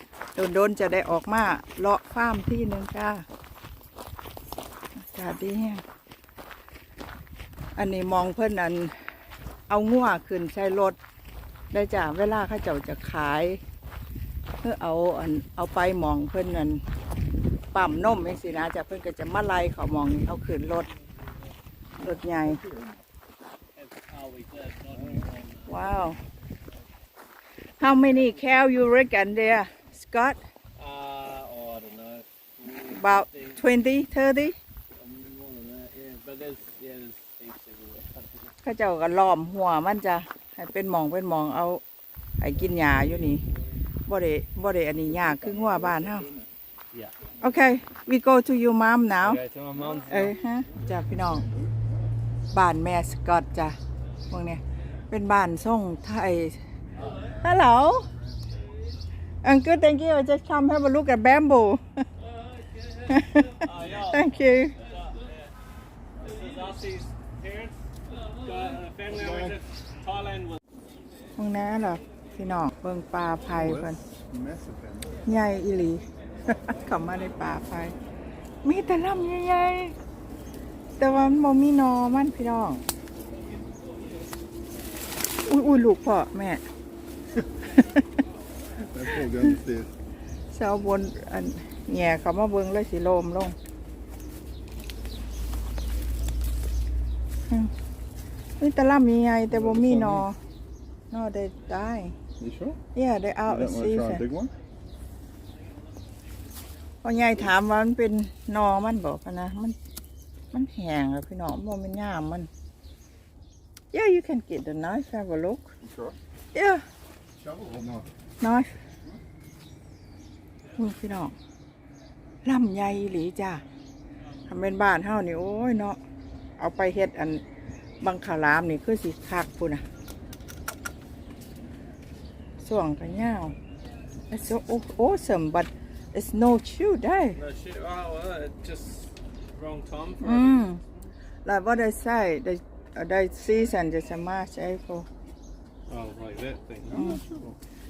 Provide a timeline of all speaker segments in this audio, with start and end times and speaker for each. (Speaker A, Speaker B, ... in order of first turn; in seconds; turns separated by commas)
Speaker A: 0.3-3.2, Speaker A: 5.0-5.8, Speaker A: 7.8-9.0, Speaker A: 9.7-11.0, Speaker A: 11.7-13.6, Speaker A: 14.6-16.8, Speaker A: 17.7-20.9, Speaker A: 22.0-22.6, Speaker B: 22.4-23.0, Speaker C: 23.7-26.7, Speaker B: 24.9-25.2, Speaker A: 25.6-26.2, Speaker A: 27.8-30.4, Speaker C: 28.1-28.4, Speaker C: 30.7-33.6, Speaker A: 32.9-34.6, Speaker C: 34.9-38.5, Speaker A: 38.6-41.8, Speaker A: 42.4-43.4, Speaker C: 42.6-43.7, Speaker A: 44.1-46.3, Speaker B: 45.1-46.5, Speaker C: 46.9-47.2, Speaker A: 47.4-49.4, Speaker C: 49.2-50.4, Speaker A: 50.1-51.4, Speaker B: 50.8-52.1, Speaker A: 52.5-53.8, Speaker A: 54.3-56.6, Speaker B: 57.0-58.5, Speaker A: 57.4-58.1, Speaker A: 59.4-62.1, Speaker C: 62.5-65.5, Speaker A: 63.1-64.8, Speaker C: 66.2-70.6, Speaker B: 69.1-69.6, Speaker A: 71.3-74.0, Speaker B: 73.5-75.2, Speaker A: 75.2-77.9, Speaker A: 78.6-79.9, Speaker A: 81.0-82.8, Speaker A: 85.4-86.6, Speaker B: 88.8-89.9, Speaker A: 90.5-93.5, Speaker A: 98.6-100.3, Speaker B: 99.5-100.3, Speaker A: 101.1-102.1, Speaker B: 102.4-102.8, Speaker A: 102.9-104.2, Speaker B: 103.5-104.5, Speaker A: 107.0-109.8, Speaker A: 110.5-112.5, Speaker A: 113.9-115.7, Speaker B: 115.8-116.2, Speaker A: 116.5-116.8, Speaker B: 117.4-118.1, Speaker A: 118.4-118.7, Speaker A: 120.7-121.3, Speaker A: 122.4-123.6, Speaker A: 124.5-126.0, Speaker A: 126.6-127.4, Speaker A: 128.0-129.8, Speaker A: 132.6-133.5, Speaker A: 134.3-137.4, Speaker C: 137.3-140.8, Speaker A: 140.2-140.8, Speaker A: 141.4-145.1, Speaker C: 145.9-147.1, Speaker B: 146.9-147.6